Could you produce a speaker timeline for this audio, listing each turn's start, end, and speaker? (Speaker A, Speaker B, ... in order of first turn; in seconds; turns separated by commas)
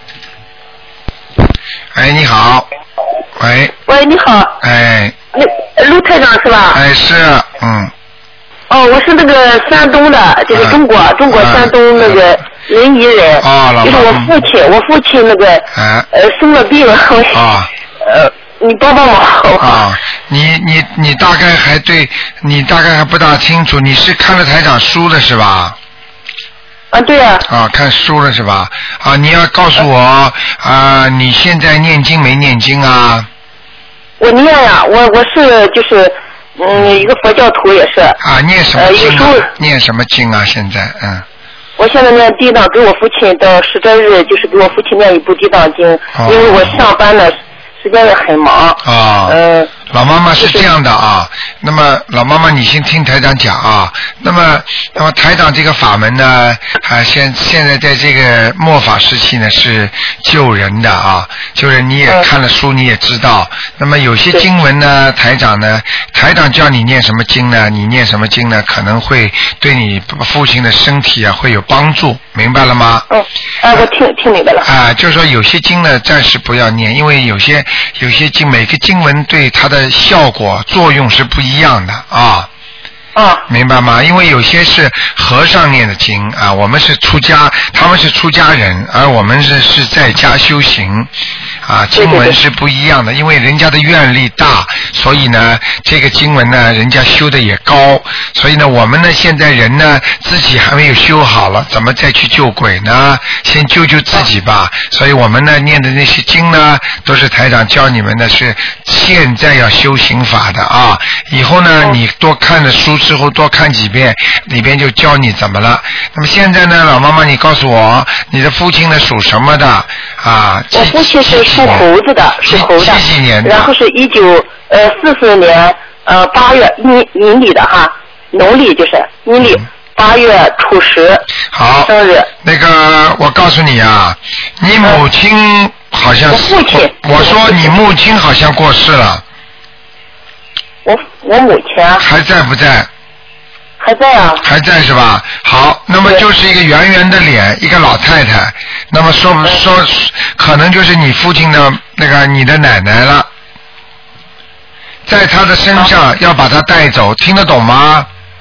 Speaker A: 1.9-2.7, Speaker A: 3.4-3.7, Speaker B: 3.9-4.5, Speaker A: 4.6-5.1, Speaker B: 5.3-6.8, Speaker A: 6.7-7.9, Speaker B: 8.7-17.4, Speaker A: 10.5-10.8, Speaker A: 11.3-12.2, Speaker A: 13.4-14.3, Speaker A: 15.7-16.1, Speaker A: 17.3-17.7, Speaker B: 18.0-19.8, Speaker A: 19.6-25.8, Speaker B: 26.9-27.4, Speaker A: 27.5-33.3, Speaker B: 34.2-38.2, Speaker A: 38.2-41.2, Speaker B: 38.8-39.5, Speaker B: 41.8-49.7, Speaker A: 46.1-46.8, Speaker A: 48.8-73.0, Speaker B: 50.4-50.6, Speaker B: 73.1-74.7, Speaker A: 74.6-82.5, Speaker B: 83.1-83.4, Speaker A: 83.5-91.1, Speaker A: 91.6-121.9, Speaker B: 92.0-92.4, Speaker B: 120.7-131.2, Speaker A: 122.4-123.7, Speaker A: 131.5-131.9, Speaker B: 131.8-132.3, Speaker A: 132.4-139.2, Speaker B: 136.3-137.7, Speaker B: 140.8-142.0, Speaker A: 142.0-142.9, Speaker B: 143.8-144.4, Speaker A: 144.4-153.3, Speaker A: 155.1-158.1